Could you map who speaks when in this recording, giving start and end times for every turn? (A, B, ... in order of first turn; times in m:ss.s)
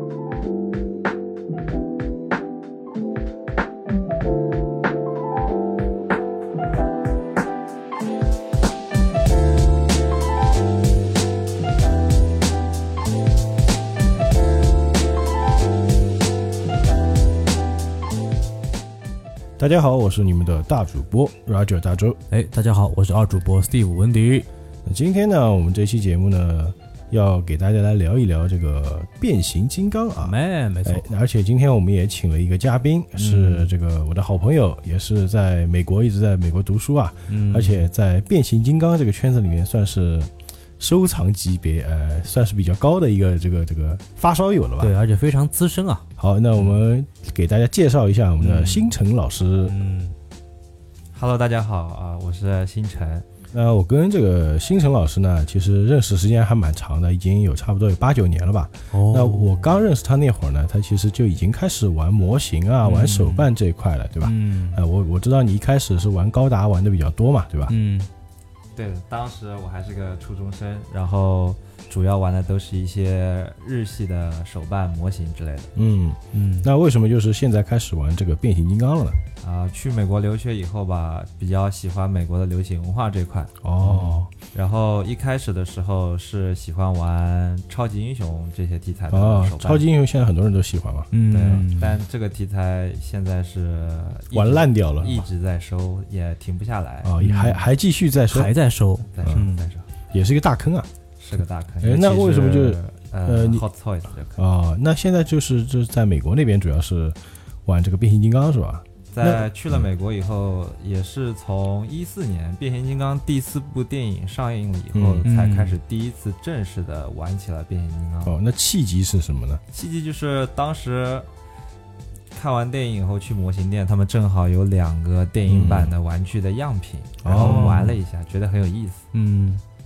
0:19.6-0:22.2 A
0:22.3-0:24.5 B
0:24.9-0:44.9 A
0:30.2-0:31.0 B
0:33.2-0:33.7 B
0:37.3-0:37.8 B
0:44.8-0:46.0 B
0:46.2-0:49.8 A
0:48.4-0:48.9 B
0:49.6-0:50.1 B
0:51.1-0:53.2 C
0:53.5-1:07.8 A
0:58.9-0:59.6 B
1:02.8-1:03.5 B
1:04.2-1:04.8 B
1:07.7-1:08.1 B
1:08.8-1:15.7 C
1:15.8-1:19.2 A
1:16.3-1:16.7 B
1:19.4-1:23.5 C
1:23.6-1:24.3 A
1:23.8-1:24.2 B
1:24.5-1:29.8 C
1:29.1-1:31.1 A
1:31.1-1:32.0 B
1:31.3-1:37.1 C
1:34.3-1:35.3 A
1:37.0-1:38.5 A
1:37.2-1:37.7 B
1:38.3-1:39.6 B
1:39.1-1:39.8 C
1:40.1-1:40.9 A
1:41.2-1:44.4 C
1:41.8-1:43.6 A
1:44.4-1:49.8 A
1:49.1-1:58.3 C
1:54.9-1:55.2 A
1:55.2-1:55.8 B
1:58.2-1:59.6 A
1:59.7-2:01.3 C
2:02.3-2:09.0 C
2:05.5-2:05.9 A
2:07.2-2:07.8 A
2:07.3-2:08.0 B
2:09.1-2:09.6 B